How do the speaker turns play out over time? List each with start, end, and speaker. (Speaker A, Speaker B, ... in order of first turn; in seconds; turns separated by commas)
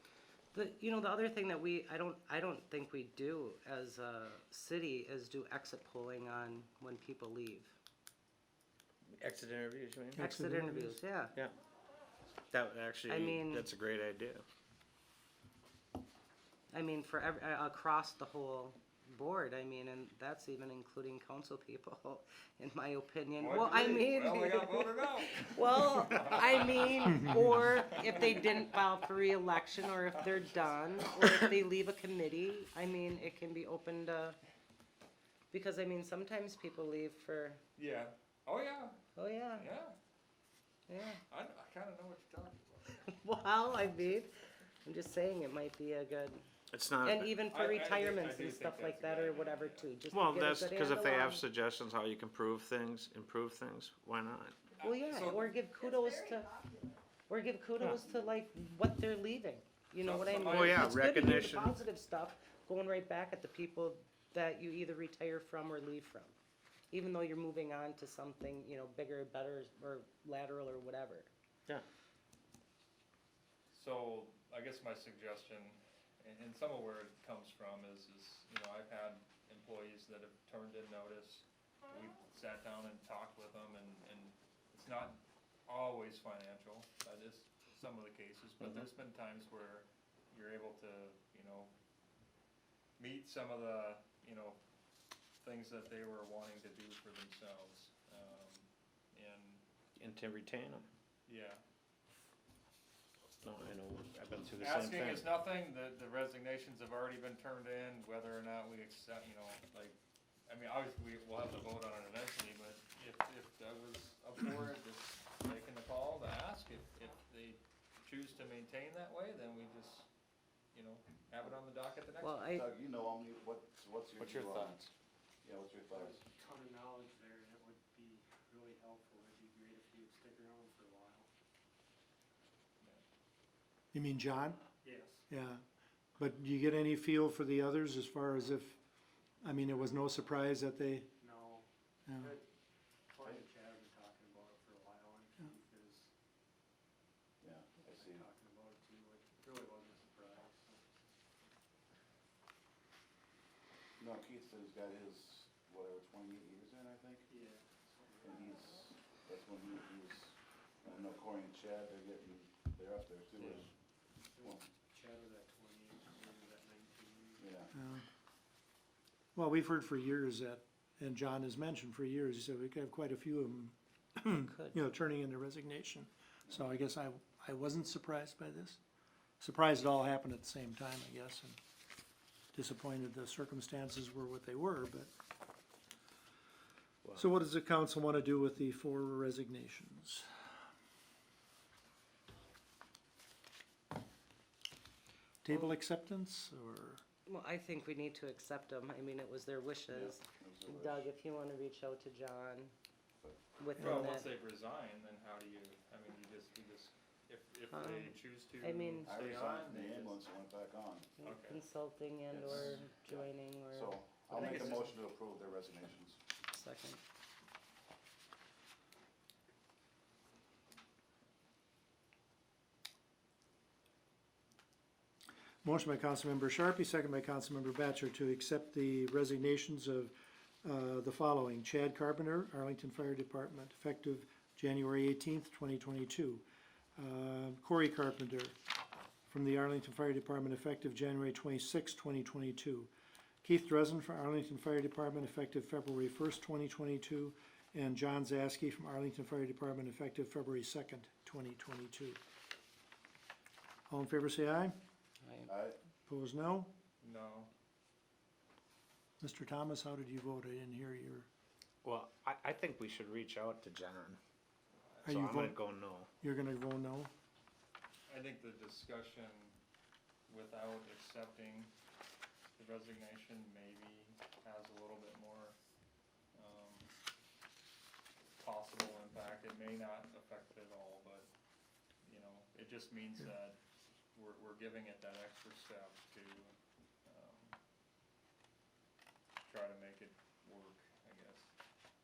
Speaker A: 0.5-7.8, Speaker B: 9.1-10.2, Speaker C: 10.1-11.0, Speaker A: 10.2-11.3, Speaker B: 12.5-14.4, Speaker A: 13.1-13.7, Speaker A: 16.7-34.4, Speaker D: 23.4-28.9, Speaker D: 30.1-31.2, Speaker A: 35.5-37.6, Speaker D: 37.8-39.0, Speaker A: 39.1-39.7, Speaker D: 39.5-39.9, Speaker A: 40.9-41.2, Speaker D: 41.3-43.1, Speaker A: 43.0-46.4, Speaker D: 43.6-44.2, Speaker B: 46.7-47.5, Speaker A: 47.0-51.4, Speaker D: 47.5-49.9, Speaker B: 50.1-54.7, Speaker D: 54.8-55.5, Speaker A: 54.8-56.7, Speaker A: 57.3-66.3, Speaker E: 58.0-58.4, Speaker D: 60.0-60.8, Speaker B: 60.5-61.8, Speaker A: 66.9-71.3, Speaker D: 73.7-91.7, Speaker D: 93.0-94.6, Speaker D: 95.4-99.6, Speaker B: 100.0-100.9, Speaker D: 101.3-101.6, Speaker B: 103.4-105.3, Speaker D: 104.6-110.0, Speaker D: 110.5-120.1, Speaker D: 120.7-122.5, Speaker A: 122.2-122.7, Speaker E: 122.5-124.9, Speaker D: 124.2-124.6, Speaker E: 125.4-126.2, Speaker F: 125.9-131.3, Speaker C: 133.9-134.6, Speaker F: 134.8-135.2, Speaker C: 135.3-135.6, Speaker C: 136.2-138.8, Speaker C: 139.4-141.1, Speaker F: 141.2-141.7, Speaker C: 142.1-142.3, Speaker F: 142.2-142.4, Speaker F: 143.1-146.1, Speaker E: 147.4-148.2, Speaker F: 147.8-151.1, Speaker E: 154.0-157.2, Speaker F: 157.3-158.7, Speaker E: 158.2-163.7, Speaker F: 164.3-167.4, Speaker E: 167.4-167.7, Speaker C: 167.7-168.0, Speaker C: 169.3-178.8, Speaker A: 174.4-174.8, Speaker C: 179.4-181.6, Speaker C: 182.5-185.1, Speaker C: 187.1-190.3, Speaker C: 195.4-197.0, Speaker A: 197.3-202.7, Speaker E: 199.9-201.1, Speaker A: 203.6-204.3, Speaker D: 203.8-210.2, Speaker A: 207.7-209.1, Speaker E: 209.0-211.1, Speaker A: 211.2-214.0, Speaker D: 211.2-211.6, Speaker E: 212.3-216.2, Speaker D: 214.3-215.0, Speaker A: 216.5-217.0, Speaker C: 225.6-236.4, Speaker C: 237.0-238.6, Speaker C: 239.3-242.9, Speaker C: 243.4-252.2, Speaker C: 253.9-254.8, Speaker E: 255.4-255.8, Speaker C: 256.1-256.7, Speaker D: 257.0-257.5, Speaker C: 259.2-261.3, Speaker B: 261.8-264.2, Speaker C: 265.0-265.6, Speaker B: 265.0-266.1, Speaker C: 266.2-267.1, Speaker D: 268.1-269.5, Speaker D: 270.3-271.7, Speaker D: 272.6-275.6, Speaker D: 276.3-276.9, Speaker D: 278.4-281.3, Speaker D: 282.0-283.6, Speaker D: 284.1-286.5, Speaker D: 287.1-287.6, Speaker D: 289.5-291.5